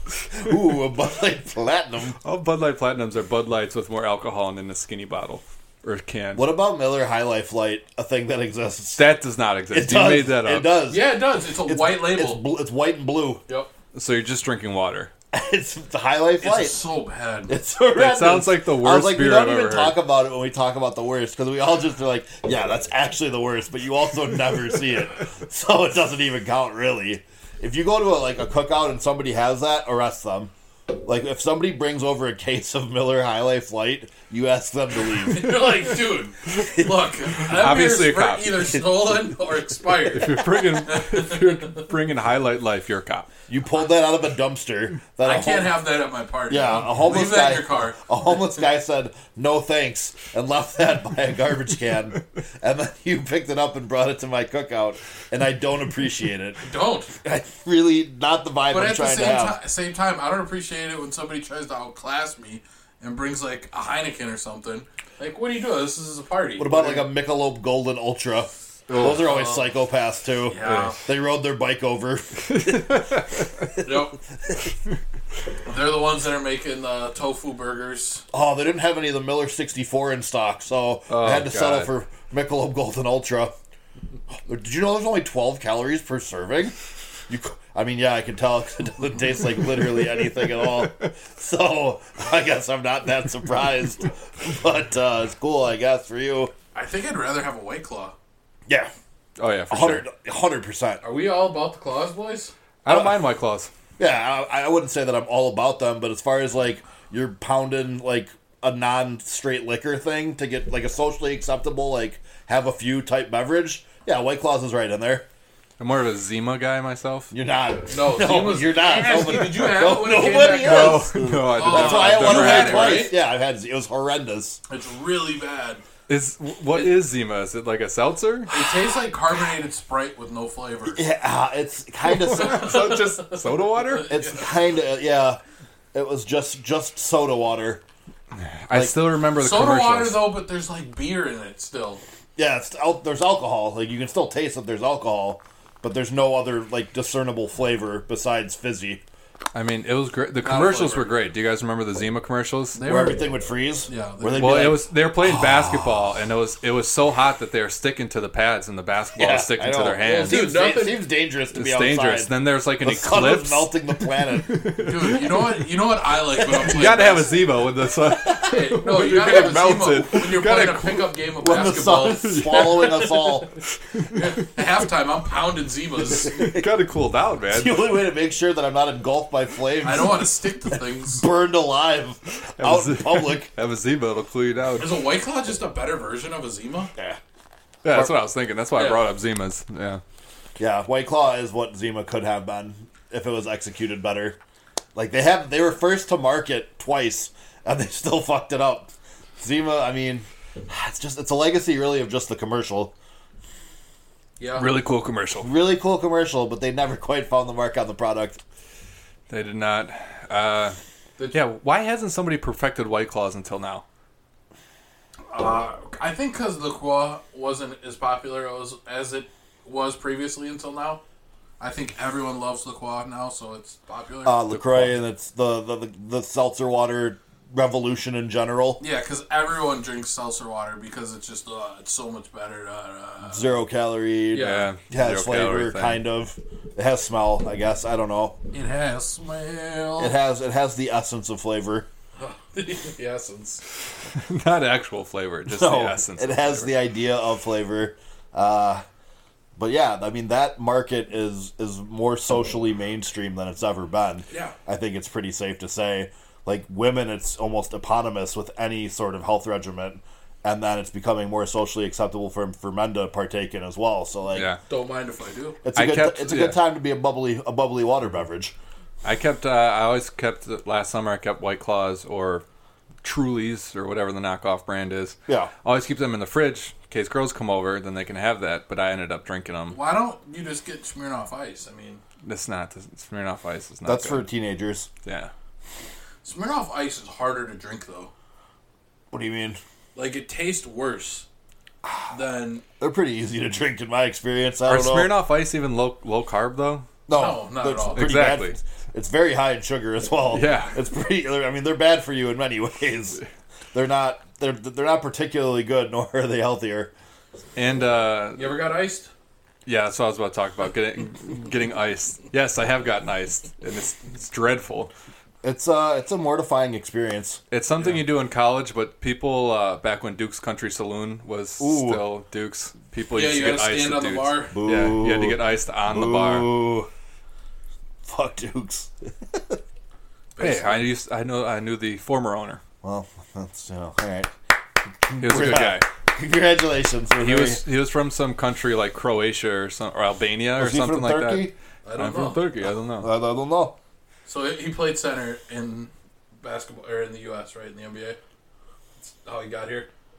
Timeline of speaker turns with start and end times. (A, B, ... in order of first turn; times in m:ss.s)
0:00.3-0:02.2 A
0:02.2-0:06.4 B
0:06.3-0:09.0 A
0:08.9-0:10.8 B
0:09.7-0:13.4 A
0:10.9-0:12.4 C
0:13.9-0:15.1 B
0:15.3-0:16.8 A
0:16.4-0:17.5 C
0:17.5-0:35.5 A
0:17.9-0:20.0 B
0:35.2-0:41.9 C
0:37.4-0:38.6 B
0:40.1-0:43.3 B
0:43.5-0:45.8 A
0:45.2-0:48.0 C
0:46.5-0:56.6 A
0:56.6-0:57.1 C
0:57.2-0:59.6 A
0:58.7-1:07.1 C
1:06.6-1:13.0 A
1:08.9-1:09.2 B
1:08.9-1:09.7 C
1:10.4-1:11.0 C
1:10.6-1:10.9 B
1:12.5-1:13.4 B
1:13.8-1:14.2 C
1:15.6-1:18.2 C
1:18.3-1:23.5 A
1:21.1-1:21.9 B
1:24.4-1:26.7 A
1:27.3-1:36.5 A
1:36.7-1:38.1 C
1:38.7-1:38.9 A
1:39.4-1:40.0 B
1:39.7-1:41.0 A
1:41.0-1:42.5 C
1:42.8-1:43.7 B
1:42.9-1:43.2 A
1:44.0-1:55.2 A
1:55.8-1:57.3 B
1:57.3-2:04.6 A
1:57.9-2:03.1 C
2:00.5-2:03.1 B
2:04.7-2:05.8 C
2:06.1-2:08.5 B
2:08.5-2:11.0 C
2:10.9-2:12.8 A
2:12.0-2:14.1 B
2:12.4-2:14.4 C
2:14.0-2:15.4 A
2:15.9-2:17.8 A
2:18.3-2:20.2 B
2:19.3-2:22.0 C
2:22.4-2:29.0 A
2:29.5-2:32.8 B
2:30.4-2:31.1 C
2:32.7-2:33.2 C
2:32.8-2:36.1 A
2:33.9-2:34.7 C
2:34.4-2:40.4 B
2:39.2-2:44.6 A
2:40.0-2:41.0 C
2:41.5-2:45.5 B
2:44.8-2:47.4 C
2:46.4-2:51.1 B
2:48.4-2:53.5 C
2:51.4-2:53.5 A
2:54.1-2:56.5 C
2:56.2-2:57.8 B
2:56.3-2:56.7 A
2:57.5-3:03.5 A
2:59.8-3:01.2 C
3:02.6-3:04.9 B
3:04.7-3:06.9 C
3:07.8-3:10.0 B
3:07.9-3:08.1 A
3:08.7-3:09.0 C
3:10.6-3:14.4 A
3:14.9-3:22.9 A
3:24.4-3:24.7 C
3:24.5-3:25.5 B
3:25.4-3:28.4 A
3:29.3-3:30.8 B
3:31.3-3:33.8 B
3:35.3-3:41.0 C
3:41.6-3:44.4 C
3:44.2-3:48.8 A
3:44.5-3:44.9 B
3:48.8-3:53.5 C
3:53.2-3:58.4 A
3:54.3-3:54.7 C
3:54.4-3:56.0 B
3:58.5-4:00.2 C
4:00.0-4:01.9 A
4:02.2-4:03.6 C
4:04.1-4:06.7 B
4:05.5-4:08.8 A
4:09.6-4:24.4 A
4:14.3-4:14.5 C
4:24.3-4:24.6 B
4:24.7-4:25.6 C
4:25.6-4:28.5 A
4:25.7-4:26.6 B
4:29.0-4:32.4 B
4:33.0-4:39.8 B
4:39.7-4:42.0 C
4:42.2-4:44.2 B
4:43.8-4:44.9 A
4:45.0-4:45.3 B
4:46.2-4:48.1 C
4:49.1-4:49.6 A
4:49.9-4:51.2 C
4:51.8-4:52.1 A
4:52.1-4:52.6 C
4:52.8-4:55.1 A
4:54.6-4:56.9 B
4:57.1-5:03.2 A
4:57.1-4:58.0 C
4:57.9-4:58.5 B
5:00.3-5:00.8 B
5:03.7-5:06.9 A
5:07.6-5:08.6 B
5:08.4-5:09.1 C
5:09.6-5:14.9 B
5:15.4-5:17.4 A
5:17.5-5:26.5 B
5:21.6-5:22.0 A
5:23.1-5:24.6 C
5:24.5-5:26.9 A
5:28.0-5:29.6 A
5:30.4-5:30.9 C
5:30.4-5:32.6 B
5:32.8-5:34.3 A
5:35.0-5:37.6 A
5:35.2-5:35.9 B
5:37.2-5:43.1 B
5:40.6-5:41.5 A
5:41.8-5:42.4 C
5:42.9-5:43.8 A
5:44.2-5:45.9 C
5:46.4-5:48.2 C
5:49.0-5:49.9 C